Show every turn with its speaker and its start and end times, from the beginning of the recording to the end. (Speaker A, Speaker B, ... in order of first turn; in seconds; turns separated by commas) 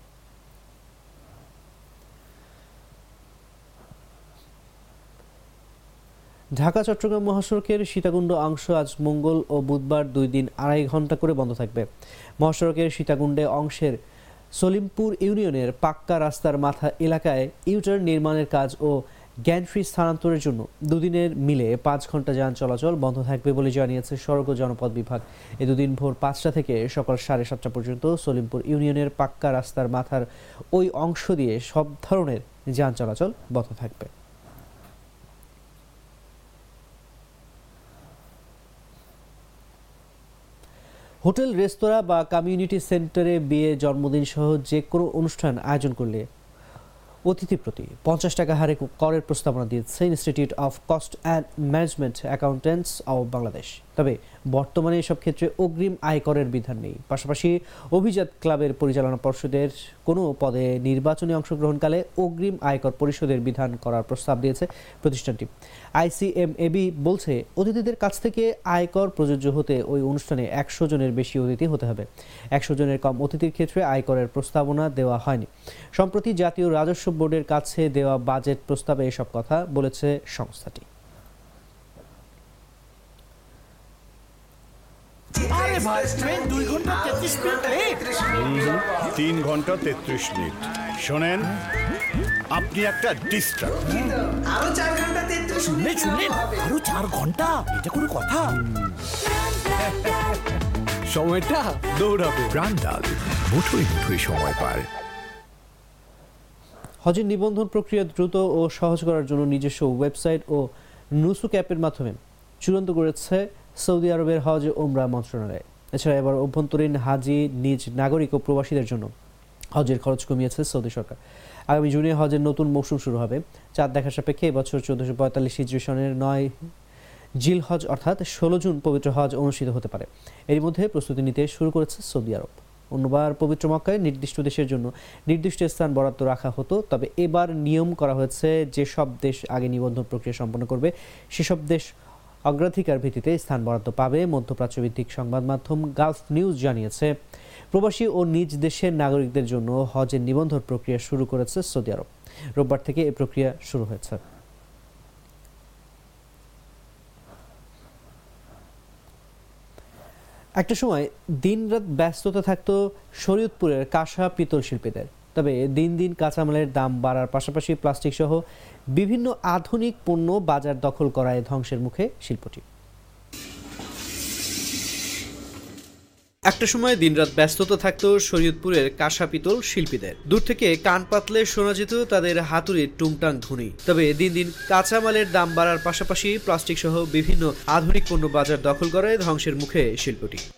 Speaker A: 6.6-11.8, Speaker A: 12.4-13.9, Speaker A: 14.6-34.1, Speaker A: 41.2-46.2, Speaker A: 47.3-80.9, Speaker B: 85.4-89.1, Speaker C: 85.5-88.0, Speaker D: 88.5-91.5, Speaker D: 92.5-93.7, Speaker B: 93.6-96.6, Speaker C: 95.6-98.6, Speaker E: 102.5-104.9, Speaker A: 107.0-110.7, Speaker A: 111.2-119.1, Speaker A: 119.8-121.2, Speaker A: 121.7-126.5, Speaker A: 127.4-141.8, Speaker A: 142.5-147.1, Speaker A: 147.7-154.2, Speaker A: 160.6-168.4, Speaker A: 168.9-172.6, Speaker A: 176.5-190.4